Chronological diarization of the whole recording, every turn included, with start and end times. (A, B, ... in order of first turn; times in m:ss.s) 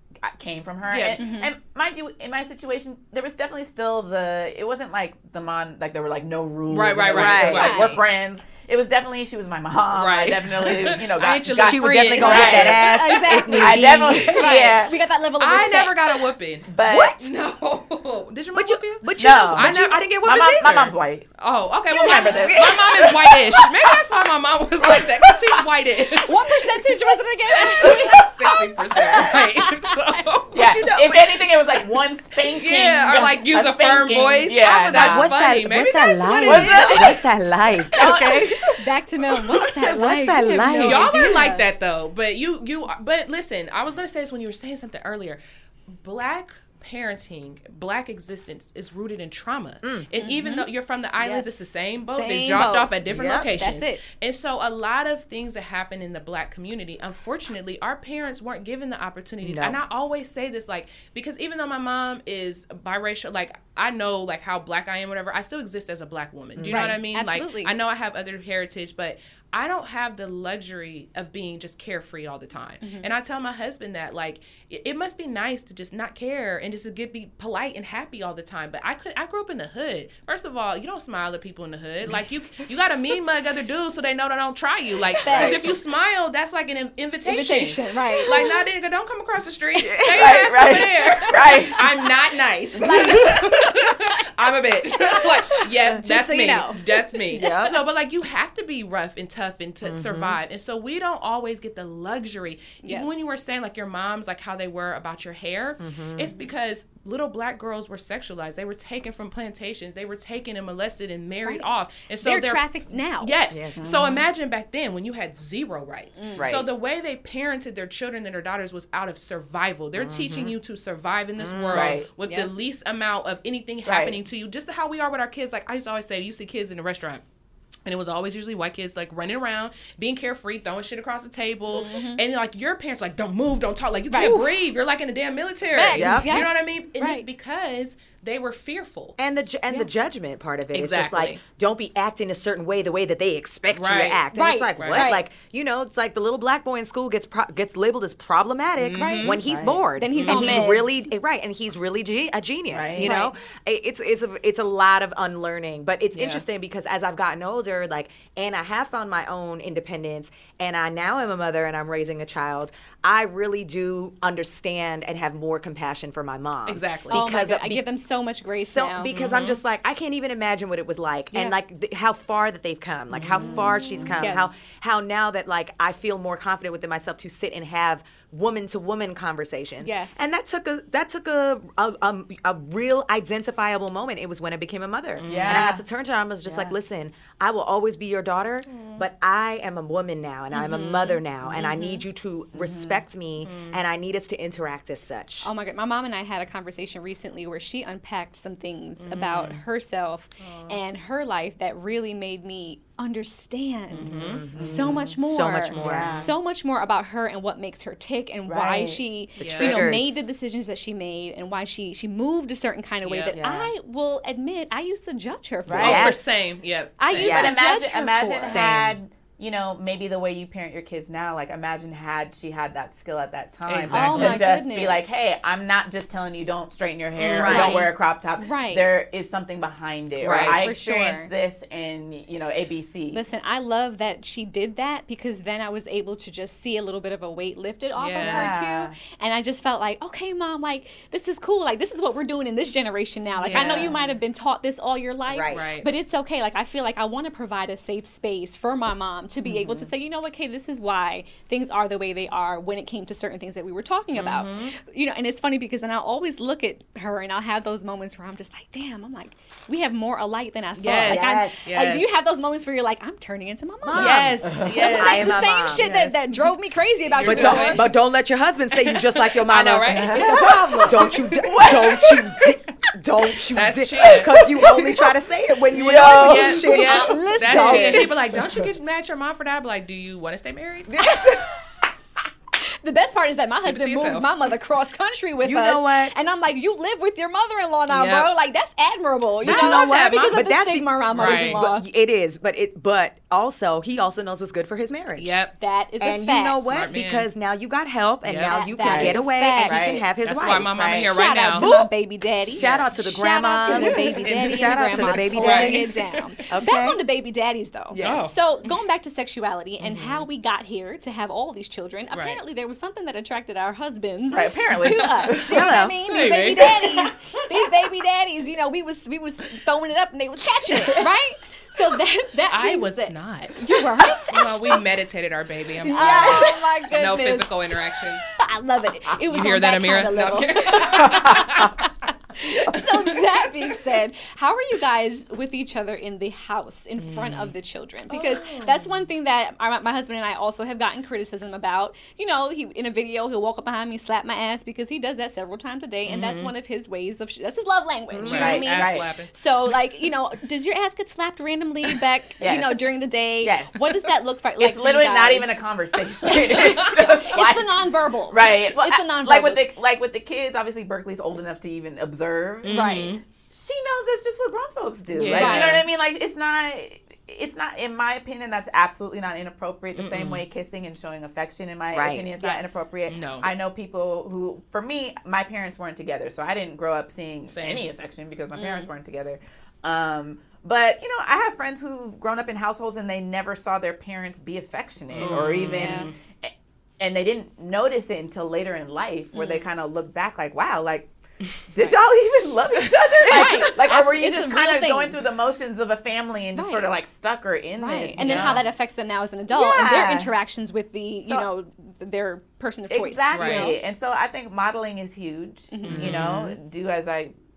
0:00.2-0:15.0 A
0:00.9-0:01.2 B
0:01.2-0:01.5 C
0:06.7-0:08.0 B
0:07.1-0:07.8 D
0:07.5-0:08.0 C
0:10.0-0:13.0 B
0:11.6-0:14.5 D
0:12.8-0:16.2 C
0:15.4-0:26.5 B
0:16.7-0:17.2 A
0:18.5-0:20.1 D
0:19.2-0:21.3 A
0:21.9-0:22.8 A
0:22.0-0:23.4 D
0:24.8-0:25.6 A
0:26.2-0:28.2 C
0:27.5-0:31.6 B
0:27.5-0:29.4 A
0:29.1-0:30.2 C
0:30.5-0:35.4 A
0:32.5-0:37.1 B
0:34.8-0:38.5 D
0:36.4-0:38.9 A
0:36.5-0:37.2 C
0:38.1-0:41.6 C
0:39.8-0:41.5 D
0:40.4-0:41.5 A
0:40.8-0:45.4 B
0:45.9-2:07.2 B
0:49.8-0:50.1 D
0:50.2-0:51.5 C
0:52.1-0:52.9 C
0:53.0-0:53.5 D
0:53.5-0:54.0 C
0:59.4-0:59.8 D
1:06.6-1:07.0 D
1:06.7-1:07.7 C
1:12.8-1:13.1 C
1:25.2-1:25.7 C
1:25.3-1:25.6 A
1:27.3-1:28.5 C
1:29.8-1:30.4 D
1:30.2-1:31.8 A
1:32.8-1:33.5 D
1:32.8-1:33.8 C
1:36.0-1:36.8 C
1:37.3-1:37.8 D
1:39.8-1:40.4 D
1:42.8-1:43.2 C
1:45.8-1:46.3 D
1:52.2-1:53.3 C
1:53.5-1:54.1 D
1:53.8-1:54.2 A
1:56.2-1:56.5 C
1:56.4-1:56.6 A
2:00.0-2:00.5 D
2:01.4-2:02.0 D
2:01.7-2:02.1 A
2:02.2-2:02.5 C
2:03.9-2:04.2 A
2:07.9-2:19.2 B
2:11.7-2:12.2 C
2:14.1-2:14.6 C
2:15.7-2:17.3 C
2:15.9-2:16.4 D
2:19.2-2:47.8 D
2:20.7-2:21.4 B
2:23.7-2:24.2 B
2:24.3-2:25.3 C
2:24.8-2:25.1 B
2:28.8-2:29.4 B
2:29.0-2:29.4 C
2:29.4-2:29.9 A
2:30.0-2:31.1 C
2:30.1-2:30.6 B
2:32.7-2:33.1 A
2:33.0-2:33.3 C
2:36.1-2:36.4 B
2:46.7-2:47.2 B
2:47.1-2:49.2 C
2:48.5-3:15.5 D
2:49.1-2:49.6 B
2:53.1-2:53.4 B
2:53.4-2:54.2 A
2:54.2-2:54.5 C
2:59.8-3:00.1 C
3:05.2-3:05.7 B
3:05.3-3:05.8 A
3:06.4-3:06.8 C
3:08.7-3:09.0 B
3:10.5-3:12.0 C
3:12.6-3:13.0 A
3:13.4-3:13.8 B
3:15.4-3:36.2 C
3:19.0-3:19.6 B
3:20.4-3:20.8 B
3:23.9-3:24.4 B
3:24.1-3:26.3 D
3:24.6-3:24.9 A
3:25.7-3:26.3 B
3:25.8-3:26.3 A
3:28.5-3:29.0 A
3:29.4-3:30.3 D
3:29.4-3:29.8 B
3:33.0-3:33.4 B
3:33.3-3:33.7 A
3:35.7-3:36.5 A
3:35.8-3:37.7 B
3:35.8-3:36.2 D
3:37.0-3:38.7 C
3:37.1-3:53.2 A
3:38.3-3:39.0 D
3:43.6-3:44.5 B
3:43.9-3:44.5 D
3:43.9-3:45.1 C
3:47.2-3:47.7 B
3:47.2-3:47.9 D
3:47.4-3:48.9 C
3:50.2-3:50.6 D
3:50.3-3:50.6 B
3:50.6-3:51.3 C
3:53.1-4:27.9 C
3:58.0-3:58.5 B
3:58.2-3:59.0 A
4:03.4-4:03.9 B
4:03.5-4:04.2 A
4:05.3-4:05.7 A
4:05.5-4:05.9 B
4:09.4-4:09.9 A
4:14.1-4:14.8 B
4:20.8-4:22.2 B
4:21.1-4:22.0 D
4:23.8-4:25.9 D
4:24.0-4:26.5 B
4:24.4-4:24.9 A
4:27.2-4:38.4 D
4:27.2-4:27.9 B
4:28.7-4:30.3 B
4:29.9-4:32.2 A
4:30.1-4:31.2 C
4:30.9-4:31.7 B
4:33.5-4:34.4 B
4:34.4-4:35.0 A
4:35.7-4:36.7 A
4:35.8-4:40.9 B
4:36.5-4:38.2 C
4:40.9-4:41.3 D
4:42.6-4:51.9 C
4:43.6-4:44.3 B
4:45.4-4:46.2 D
4:47.9-4:48.3 B
4:49.4-4:55.4 D
4:49.4-4:50.4 B
4:51.2-4:51.6 B
4:55.1-4:55.6 B
4:55.6-4:56.9 C
4:56.0-5:00.9 D
4:56.7-4:57.3 B
4:58.2-4:58.6 B
4:58.4-5:00.0 C
4:58.8-5:00.1 A
5:00.2-5:01.7 B
5:00.7-5:01.1 A
5:00.9-5:24.8 C
5:01.6-5:01.9 D
5:02.5-5:07.0 D
5:02.5-5:02.9 B
5:03.6-5:06.3 B
5:05.4-5:05.8 A
5:07.9-5:08.3 A
5:08.0-5:08.8 B
5:09.8-5:10.3 B
5:12.1-5:12.4 B
5:14.3-5:15.9 A
5:15.3-5:16.0 D
5:16.1-5:16.9 B
5:22.5-5:23.8 B
5:24.3-5:28.2 B
5:25.8-5:26.8 A
5:25.9-5:27.8 C
5:28.4-5:55.5 C
5:29.3-5:31.8 B
5:31.0-5:31.7 A
5:32.7-5:33.5 B
5:37.1-5:37.5 D
5:38.3-5:38.6 D
5:46.1-5:46.5 B
5:48.1-5:48.5 D
5:48.2-5:49.3 B
5:48.3-5:49.1 A
5:52.4-5:53.9 A
5:54.6-6:03.0 A
5:56.2-5:59.7 C
6:02.6-6:03.2 B
6:02.7-6:03.2 C
6:03.5-6:31.1 A
6:05.1-6:05.8 B
6:05.3-6:05.8 C
6:10.0-6:10.4 B
6:11.9-6:12.4 D
6:12.4-6:12.7 C
6:13.1-6:13.5 B
6:17.5-6:17.8 B
6:18.5-6:18.9 C
6:25.1-6:26.2 B
6:25.2-6:26.1 C
6:29.3-6:29.7 C
6:31.7-6:38.7 A
6:32.8-6:33.7 B
6:33.3-6:35.2 C
6:36.6-6:36.9 C
6:37.8-6:43.8 C
6:38.2-6:38.6 B
6:39.5-6:40.3 A
6:42.9-6:47.4 A
6:43.3-6:43.7 B
6:45.7-6:46.2 C
6:45.9-6:46.6 B